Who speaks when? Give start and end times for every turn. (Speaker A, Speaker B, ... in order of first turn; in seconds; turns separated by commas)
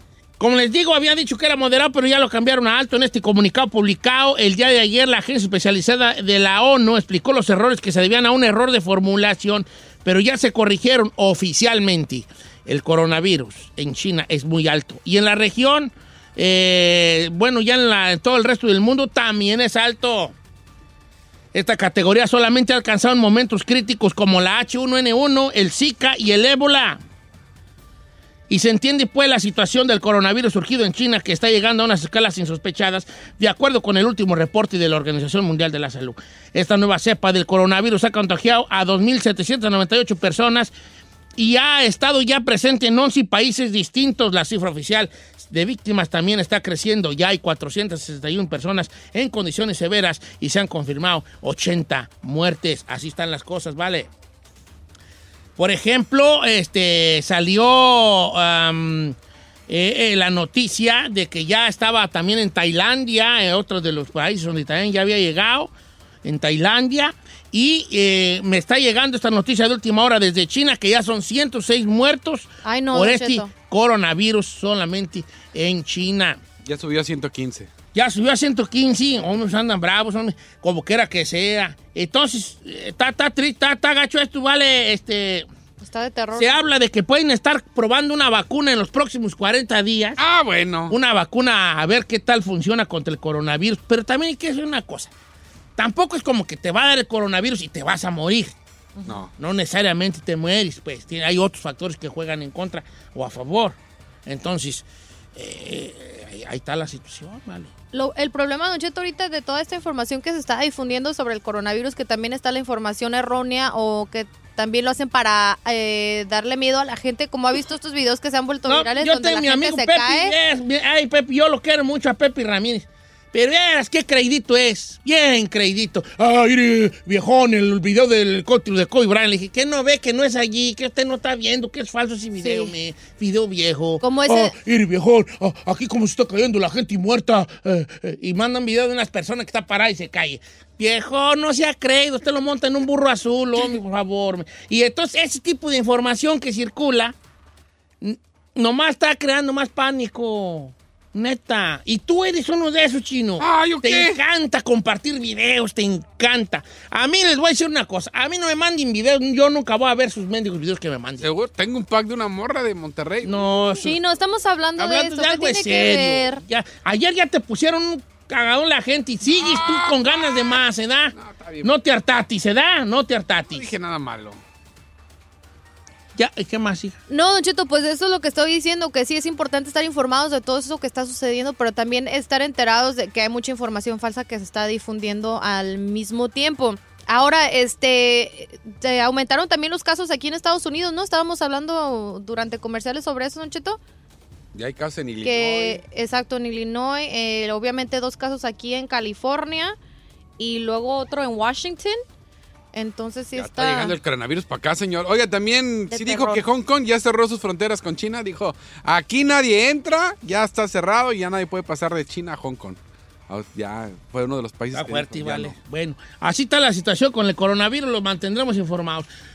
Speaker A: 0.4-20.3, Speaker A: 21.5-27.0, Speaker A: 28.5-40.7, Speaker A: 41.4-54.1, Speaker A: 55.6-59.1, Speaker A: 59.7-65.7, Speaker A: 66.2-76.4, Speaker B: 72.6-73.5, Speaker C: 76.6-77.7, Speaker A: 77.9-85.5, Speaker B: 85.8-86.6, Speaker A: 86.3-90.2, Speaker C: 90.2-90.9, Speaker A: 90.9-95.1, Speaker A: 95.8-98.5, Speaker A: 99.4-107.7, Speaker B: 107.9-120.3, Speaker A: 118.7-147.1, Speaker B: 132.4-132.7, Speaker B: 134.0-134.5, Speaker A: 148.0-161.2, Speaker C: 153.4-154.2, Speaker C: 161.2-163.6, Speaker A: 163.2-164.0, Speaker B: 163.8-166.4, Speaker A: 164.8-173.7, Speaker C: 169.3-170.2, Speaker C: 171.1-171.7, Speaker C: 173.5-174.4, Speaker A: 176.2-177.0, Speaker B: 177.1-193.8, Speaker C: 194.5-195.8, Speaker B: 195.2-199.8, Speaker B: 200.4-202.0, Speaker B: 202.7-203.9, Speaker C: 203.3-212.8, Speaker B: 205.9-206.4, Speaker C: 213.3-215.5, Speaker A: 214.7-219.1